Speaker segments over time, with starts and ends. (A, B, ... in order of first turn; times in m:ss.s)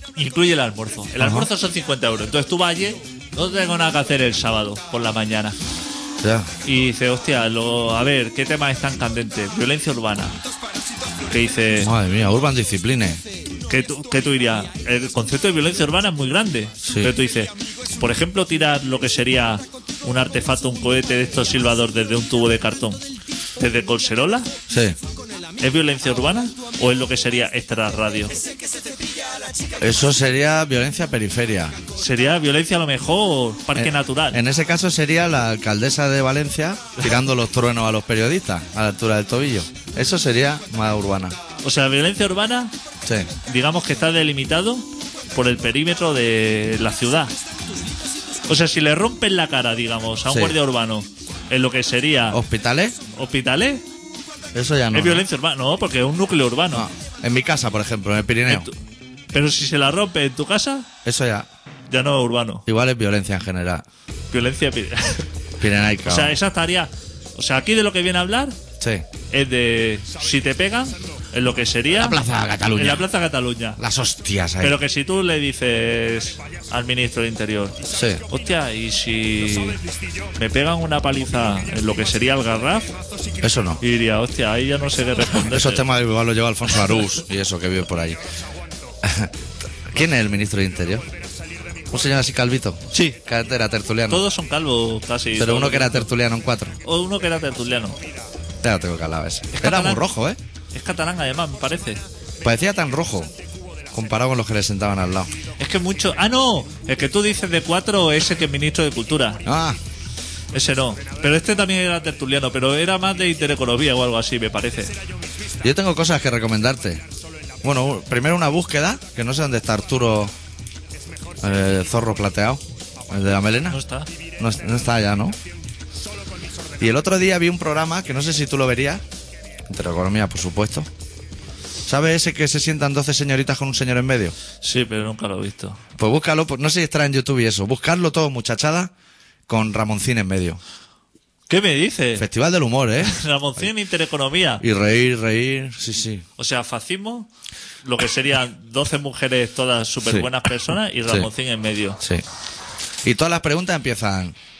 0:00.2-0:05.6 A
0:01.2-0:01.5 B
0:06.2-0:06.5 B
0:06.6-0:10.4 A
0:11.2-0:11.9 A
0:11.8-0:13.2 B
0:13.7-0:23.0 A
0:16.8-0:17.1 B
0:23.6-0:24.5 A
0:24.7-0:25.0 B
0:25.6-0:28.4 A
0:29.8-0:31.8 B
0:31.9-0:34.4 A
0:33.7-0:41.4 B
0:41.6-0:42.7 A
0:43.0-0:43.3 B
0:43.4-0:47.3 A
0:48.4-0:52.4 A
0:50.3-0:50.6 B
0:52.3-0:53.0 B
0:53.1-0:53.8 A
0:54.5-0:55.2 B
0:54.9-0:56.8 A
0:56.7-0:58.7 B
0:58.5-0:58.7 A
0:59.3-1:00.9 A
1:01.0-1:01.5 B
1:01.9-1:02.6 A
1:02.7-1:03.8 B
1:04.3-1:05.3 A
1:05.6-1:06.4 B
1:06.0-1:08.6 A
1:08.8-1:09.0 B
1:09.3-1:12.2 A
1:11.9-1:13.1 B
1:12.7-1:13.8 A
1:13.8-1:14.8 B
1:14.6-1:19.8 A
1:17.9-1:18.2 B
1:20.4-1:23.0 A
1:23.4-1:23.8 B
1:23.8-1:25.8 A
1:25.4-1:28.2 B
1:29.0-1:29.3 B
1:29.8-1:31.0 B
1:31.9-1:34.2 B
1:32.9-1:33.2 A
1:34.1-1:36.1 A
1:35.4-1:36.8 B
1:36.8-1:38.0 A
1:38.6-1:40.4 B
1:39.5-1:40.0 A
1:40.7-1:42.0 A
1:42.4-1:43.3 B
1:43.9-1:45.3 B
1:45.6-1:49.4 A
1:49.4-1:49.8 B
1:50.5-1:54.9 A
1:55.6-1:57.0 B
1:57.6-2:00.3 B
2:01.4-2:03.8 B
2:03.7-2:04.1 A
2:04.4-2:05.4 B
2:06.8-2:09.0 B
2:09.7-2:10.9 B
2:11.8-2:14.4 B
2:14.6-2:15.8 A
2:16.0-2:18.9 B
2:19.5-2:20.6 B
2:21.5-2:22.3 A
2:22.2-2:23.6 B
2:23.0-2:24.6 A
2:24.6-2:26.2 B
2:26.4-2:27.3 A
2:27.8-2:32.0 A
2:33.0-2:34.4 B